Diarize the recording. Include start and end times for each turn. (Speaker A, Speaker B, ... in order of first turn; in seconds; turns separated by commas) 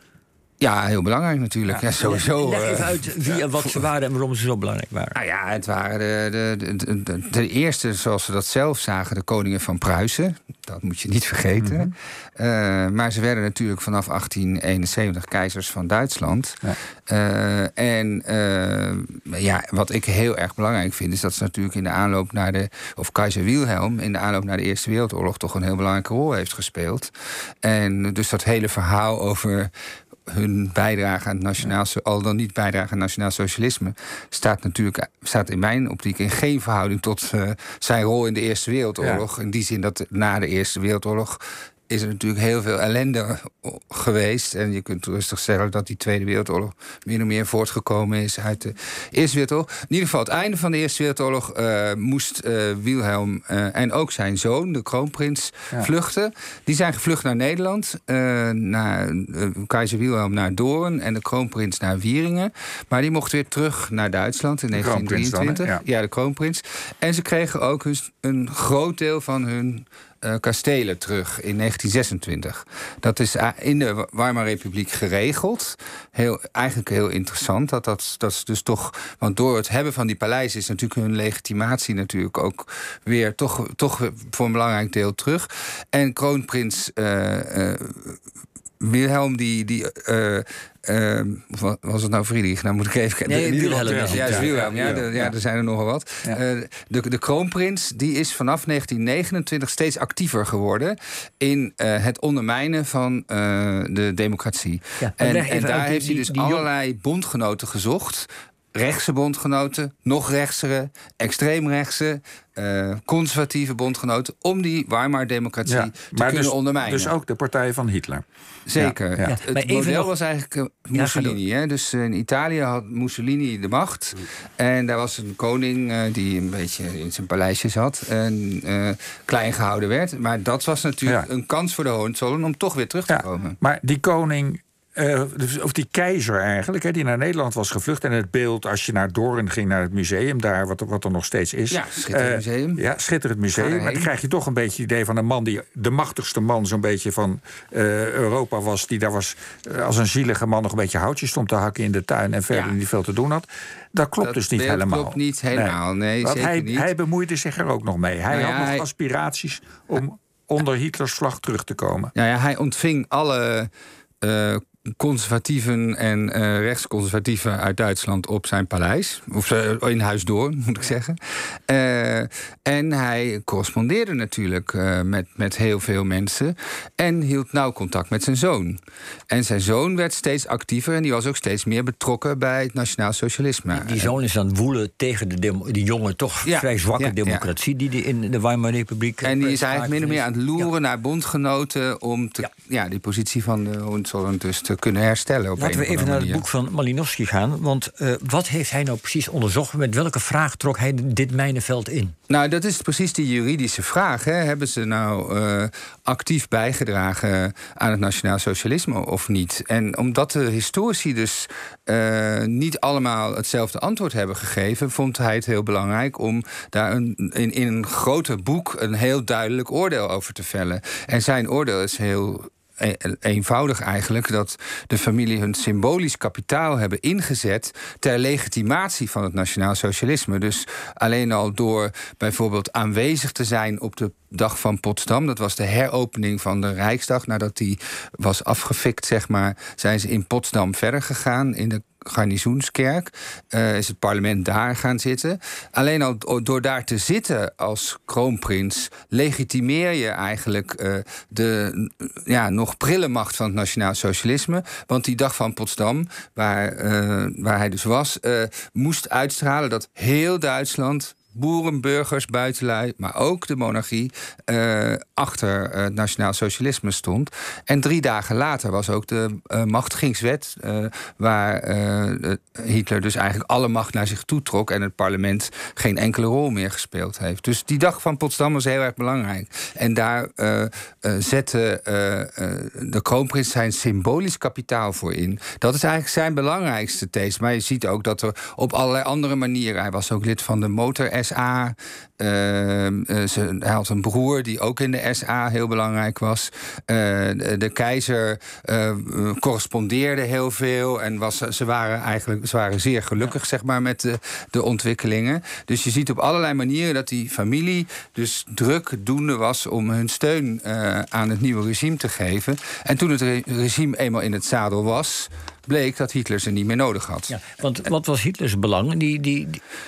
Speaker A: 0.6-3.5, Speaker B: 2.0-5.2, Speaker A: 5.1-27.1, Speaker C: 11.6-11.9, Speaker A: 27.6-29.7, Speaker A: 30.3-88.2, Speaker C: 64.7-65.8, Speaker A: 88.8-117.1, Speaker B: 93.2-94.7, Speaker C: 93.8-95.3, Speaker B: 105.0-106.7, Speaker C: 115.7-118.2, Speaker A: 118.7-133.6, Speaker C: 118.8-119.3, Speaker B: 119.2-120.1, Speaker B: 120.9-121.4, Speaker C: 133.1-162.1, Speaker A: 141.7-142.8, Speaker A: 143.5-144.1, Speaker A: 152.5-152.8, Speaker A: 154.2-156.9, Speaker A: 158.3-158.9, Speaker A: 162.2-163.7, Speaker A: 164.2-171.2, Speaker A: 171.7-184.2, Speaker B: 183.7-190.7, Speaker A: 186.4-187.5, Speaker A: 189.2-196.5, Speaker B: 195.6-202.2, Speaker A: 202.3-317.4, Speaker B: 317.3-319.6